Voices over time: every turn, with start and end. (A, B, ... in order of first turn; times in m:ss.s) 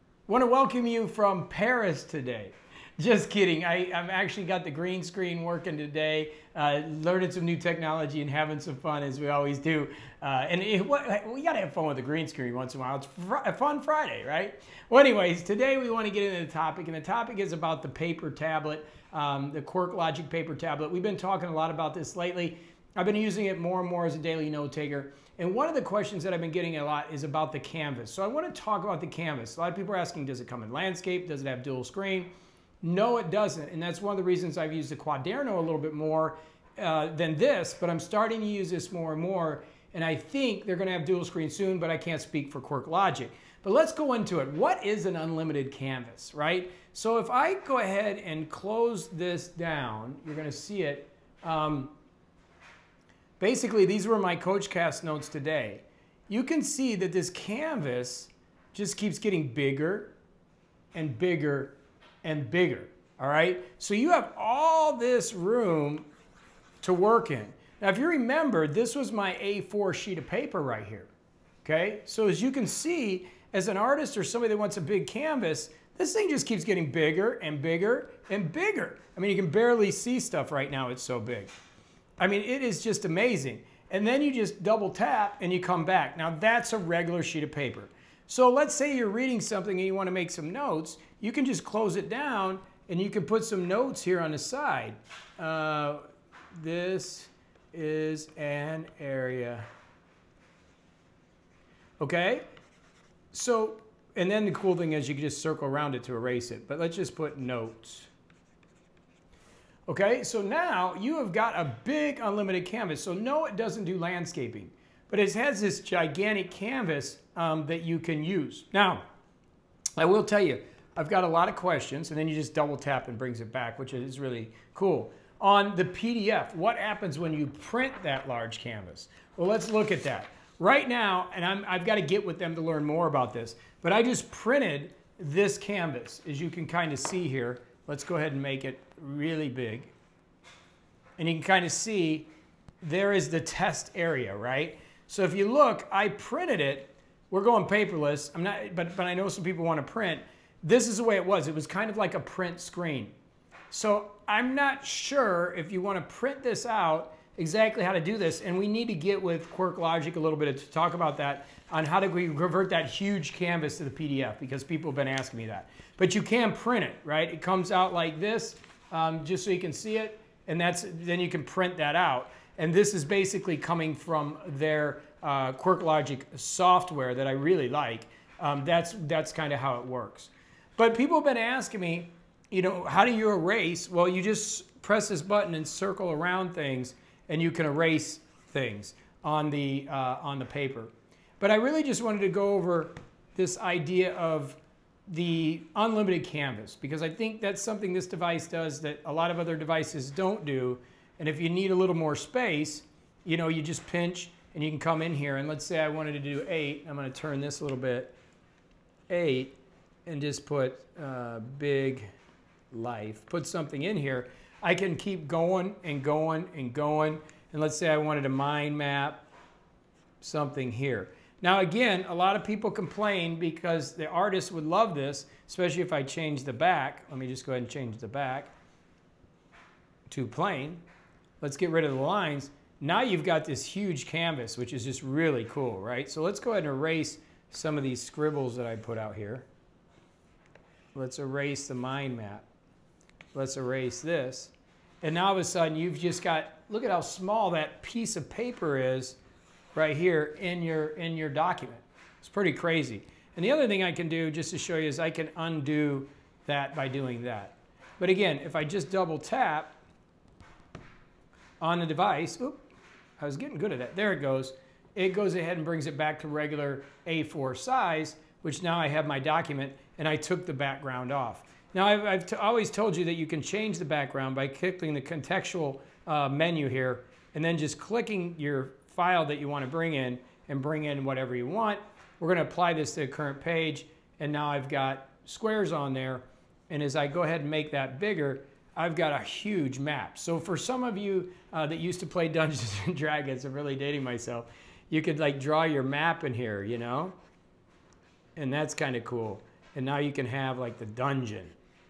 0:00.3-0:32.3 A
0:32.8-0:51.9 A
0:53.4-1:00.1 A
1:00.9-1:06.1 A
1:06.8-1:11.1 A
1:11.6-1:21.5 A
1:22.2-1:39.7 A
1:42.0-1:42.4 A
1:43.3-1:48.1 A
1:49.9-1:59.0 A
2:00.0-2:19.9 A
2:21.2-2:22.3 A
2:22.8-2:33.1 A
2:33.7-3:28.2 A
3:29.1-3:29.6 A
3:30.1-3:32.1 A
3:32.7-3:39.3 A
3:40.2-3:48.5 A
3:50.1-3:50.8 A
3:51.4-3:59.5 A
4:00.9-4:02.5 A
4:03.3-4:09.2 A
4:09.8-4:19.8 A
4:21.6-4:22.6 A
4:23.2-4:57.2 A
4:58.4-5:01.6 A